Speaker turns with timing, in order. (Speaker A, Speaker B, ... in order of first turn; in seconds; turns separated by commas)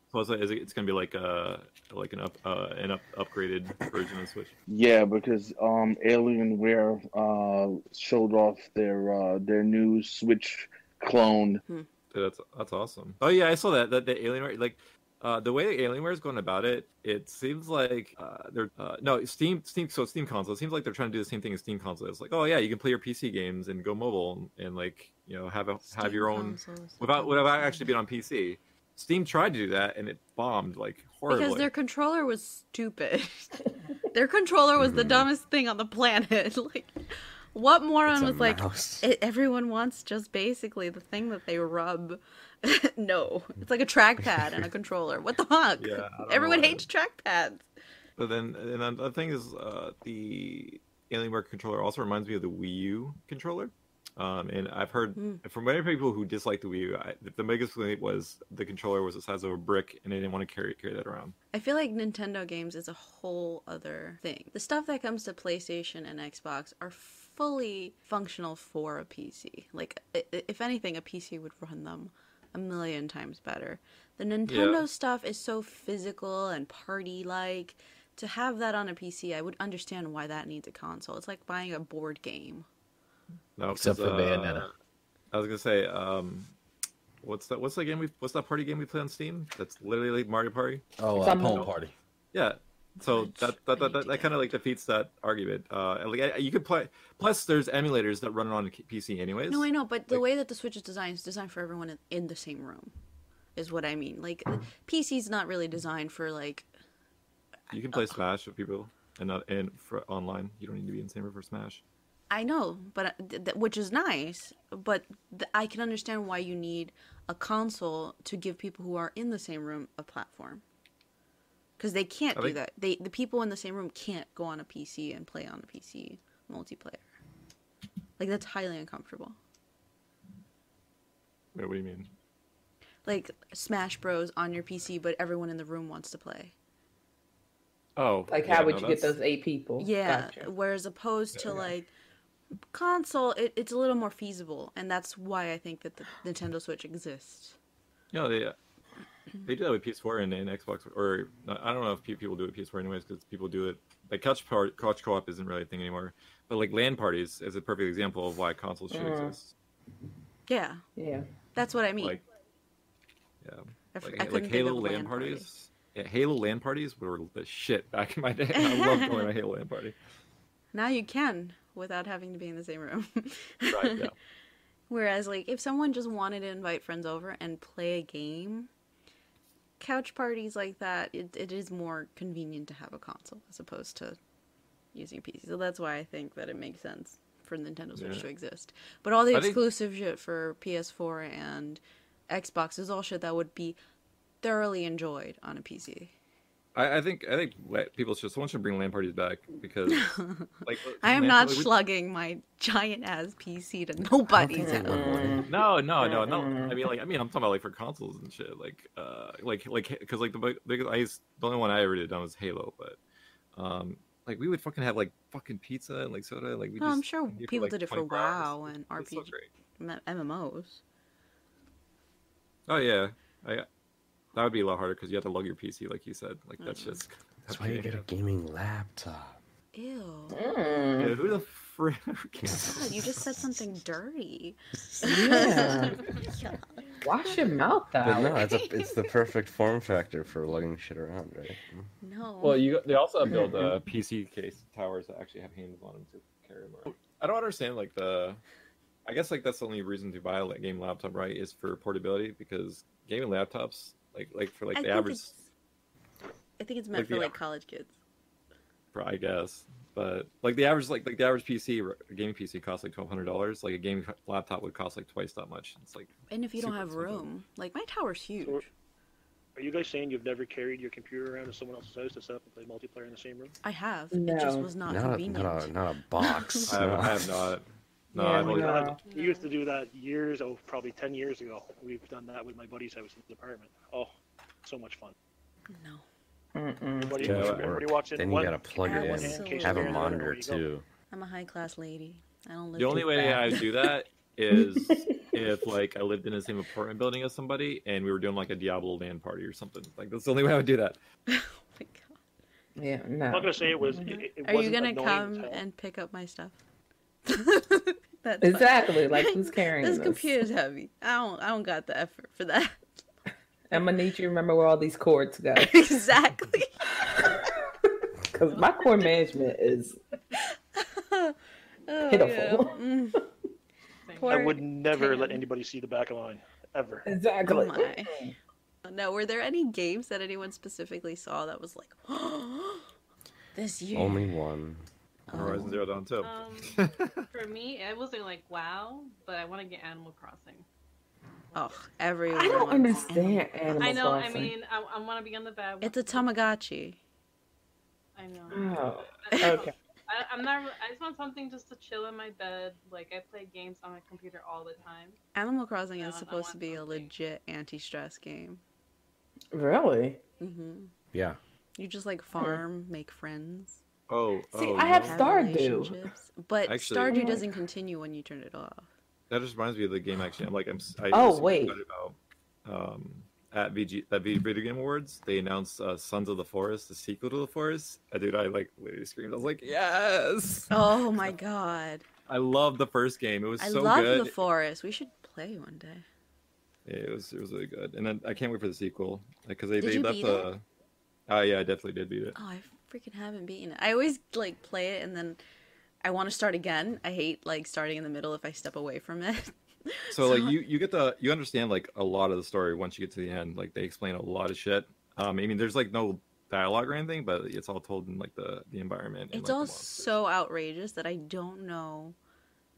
Speaker A: 0.1-4.5, Speaker B: 4.7-11.6, Speaker A: 12.1-31.7, Speaker C: 25.9-27.9, Speaker C: 31.3-33.6, Speaker C: 34.1-36.9, Speaker D: 34.8-35.3, Speaker C: 37.5-47.6, Speaker D: 38.1-39.1, Speaker A: 45.8-46.9, Speaker A: 48.2-61.4, Speaker C: 55.2-55.4, Speaker C: 61.5-82.7, Speaker A: 74.5-74.8, Speaker A: 83.6-84.7, Speaker E: 83.7-84.7, Speaker A: 85.3-86.5, Speaker A: 87.2-90.9, Speaker E: 91.0-92.0, Speaker F: 91.2-91.7, Speaker A: 91.4-91.7, Speaker A: 92.3-100.2, Speaker C: 93.0-94.3, Speaker C: 99.5-102.9, Speaker C: 103.6-106.7, Speaker A: 107.7-111.8, Speaker C: 112.3-120.6, Speaker C: 121.8-127.0, Speaker C: 128.2-129.4, Speaker A: 131.6-132.1, Speaker C: 133.1-136.5, Speaker A: 138.0-139.2, Speaker F: 138.3-140.5, Speaker C: 139.8-141.9, Speaker C: 142.7-147.6, Speaker A: 148.1-148.6, Speaker A: 149.4-159.5, Speaker F: 158.9-159.4, Speaker C: 160.5-160.8, Speaker F: 161.0-161.3, Speaker C: 161.5-162.2, Speaker A: 163.4-169.9, Speaker C: 163.9-165.5, Speaker C: 168.6-169.3, Speaker C: 170.7-174.1, Speaker A: 173.7-174.1, Speaker C: 174.9-178.7, Speaker C: 179.8-184.2, Speaker C: 184.9-193.8, Speaker A: 188.0-188.3, Speaker A: 189.3-189.6, Speaker C: 194.4-196.1, Speaker A: 196.8-201.7, Speaker C: 199.9-205.2, Speaker D: 204.3-205.4, Speaker F: 204.6-205.5, Speaker A: 205.5-213.0, Speaker F: 206.0-206.8, Speaker A: 213.6-219.5, Speaker C: 216.8-220.8, Speaker A: 222.7-223.7, Speaker A: 224.3-228.1, Speaker C: 226.6-227.0, Speaker D: 227.5-229.4, Speaker C: 229.7-230.4, Speaker F: 230.3-231.2, Speaker A: 231.0-233.1, Speaker D: 232.4-233.6, Speaker C: 232.7-236.7, Speaker D: 234.9-235.2, Speaker F: 235.0-236.0, Speaker F: 237.0-238.4, Speaker D: 238.0-241.9, Speaker C: 238.4-238.9, Speaker C: 242.0-242.6, Speaker A: 242.4-248.4, Speaker F: 243.3-243.8, Speaker A: 249.1-255.3, Speaker C: 254.8-255.4, Speaker C: 256.6-257.9, Speaker A: 256.9-257.4, Speaker A: 258.9-267.3, Speaker C: 266.3-268.7, Speaker G: 269.6-273.5, Speaker C: 273.6-276.8, Speaker F: 274.1-274.7, Speaker D: 274.9-277.4, Speaker A: 276.7-279.0, Speaker F: 278.1-279.0, Speaker G: 278.6-284.1, Speaker H: 279.0-279.5, Speaker G: 284.6-285.1, Speaker C: 285.7-286.0, Speaker F: 286.6-287.3, Speaker G: 287.0-290.6, Speaker D: 287.2-290.9, Speaker A: 287.3-287.7, Speaker C: 288.8-290.3, Speaker C: 291.1-293.6, Speaker A: 292.8-301.0, Speaker F: 293.0-293.9, Speaker F: 294.6-295.3, Speaker C: 301.3-302.2, Speaker F: 302.8-304.2, Speaker G: 303.3-305.6, Speaker C: 304.0-306.6, Speaker C: 307.3-313.0, Speaker F: 308.4-310.3, Speaker F: 313.7-315.7, Speaker C: 315.6-316.7, Speaker F: 317.0-320.0, Speaker C: 320.8-321.4, Speaker C: 321.9-323.2, Speaker F: 322.1-322.8, Speaker H: 324.1-324.6, Speaker C: 324.2-325.4, Speaker G: 324.3-327.1, Speaker F: 327.1-328.4, Speaker C: 327.4-328.2, Speaker C: 328.9-332.9, Speaker C: 333.5-334.3, Speaker D: 333.9-335.8, Speaker C: 335.3-335.7, Speaker A: 335.3-337.2, Speaker H: 336.2-336.8, Speaker H: 337.3-340.7, Speaker C: 341.5-343.9, Speaker F: 342.3-344.6, Speaker H: 343.8-346.3, Speaker C: 345.8-347.0, Speaker H: 348.2-355.2, Speaker F: 348.5-349.7, Speaker C: 355.4-358.6, Speaker H: 356.0-357.1, Speaker F: 359.5-360.2, Speaker C: 360.4-360.9, Speaker D: 361.1-361.4, Speaker C: 361.8-363.8, Speaker F: 362.4-362.6, Speaker A: 364.1-365.2, Speaker F: 364.5-366.1, Speaker C: 365.1-368.9, Speaker A: 366.7-367.3, Speaker F: 367.1-367.5, Speaker A: 369.3-381.3, Speaker F: 371.1-371.8, Speaker C: 380.7-382.1, Speaker A: 382.3-384.3, Speaker C: 383.6-386.1, Speaker A: 386.9-390.6, Speaker C: 389.8-390.5, Speaker A: 391.3-392.4, Speaker C: 392.4-395.4, Speaker C: 396.0-400.6, Speaker A: 400.1-410.1, Speaker C: 409.3-412.2